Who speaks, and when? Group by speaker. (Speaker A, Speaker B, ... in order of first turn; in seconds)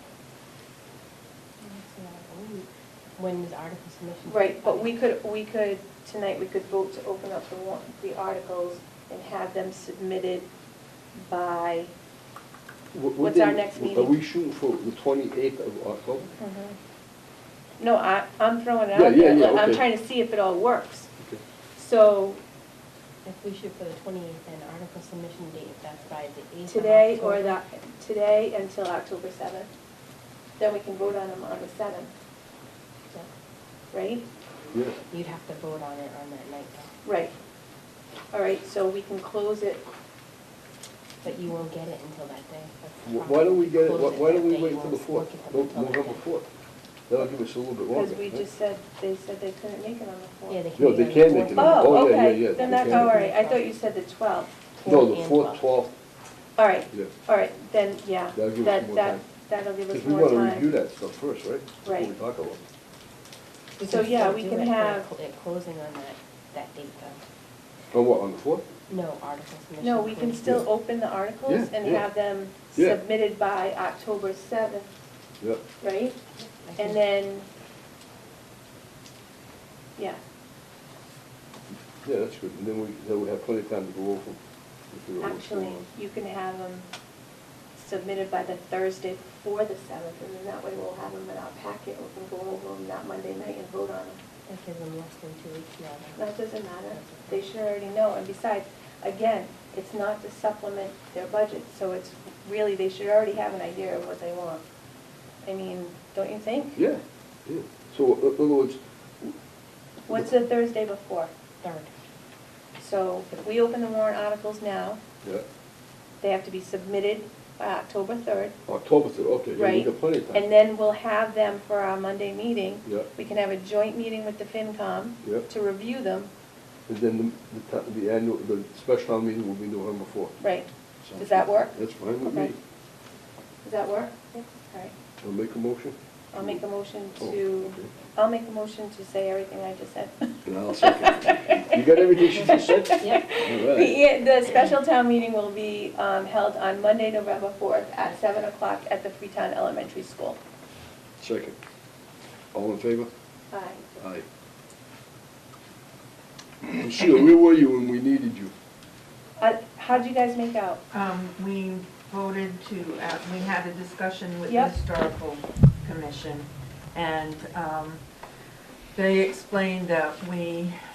Speaker A: 1.6-5.0, 23.2-27.6, 35.1-36.9, 41.2-46.2, 50.5-53.7, 54.8-55.6, 63.8-67.2, 68.9-70.6, 76.7-77.0, 94.5-96.4, 96.9-97.4, 111.6-111.9, 142.9-143.4
Speaker B: 4.3-10.5, 11.2-11.9, 13.2-14.2, 16.4-16.8, 17.8-21.1, 21.8-22.4, 26.7-29.7, 30.6-32.1, 33.9-34.3, 37.0-37.3, 38.3-39.8, 47.9-50.6, 51.5-54.6, 56.6-60.7, 61.9-62.1, 63.8-65.1, 69.8-74.9, 75.8-76.2, 76.8-77.5, 85.2-86.9, 87.8-94.2, 96.2-104.6, 105.5-106.8, 110.0-111.3, 112.8-115.0, 116.2-118.6, 119.6-126.3, 130.4-132.5, 133.6-134.9, 136.3-150.4, 153.5-153.9, 159.4-160.8, 164.5-164.8
Speaker C: 12.9-16.3, 18.9-19.9, 34.7-35.0, 43.1-46.5, 47.1-48.5, 50.8-53.2, 54.9-55.9, 58.4-59.2, 59.9-62.6, 67.9-68.7, 71.5-72.1, 72.8-73.0, 82.0-84.4, 84.9-85.9, 106.8-108.8, 118.7-120.5, 126.9-130.4, 131.0-132.6, 135.2-136.6, 137.2-137.9, 140.4-144.0, 151.2-151.6, 152.5-153.1, 154.0-154.2, 156.6-158.5
Speaker D: 160.9-168.0, 168.9-170.8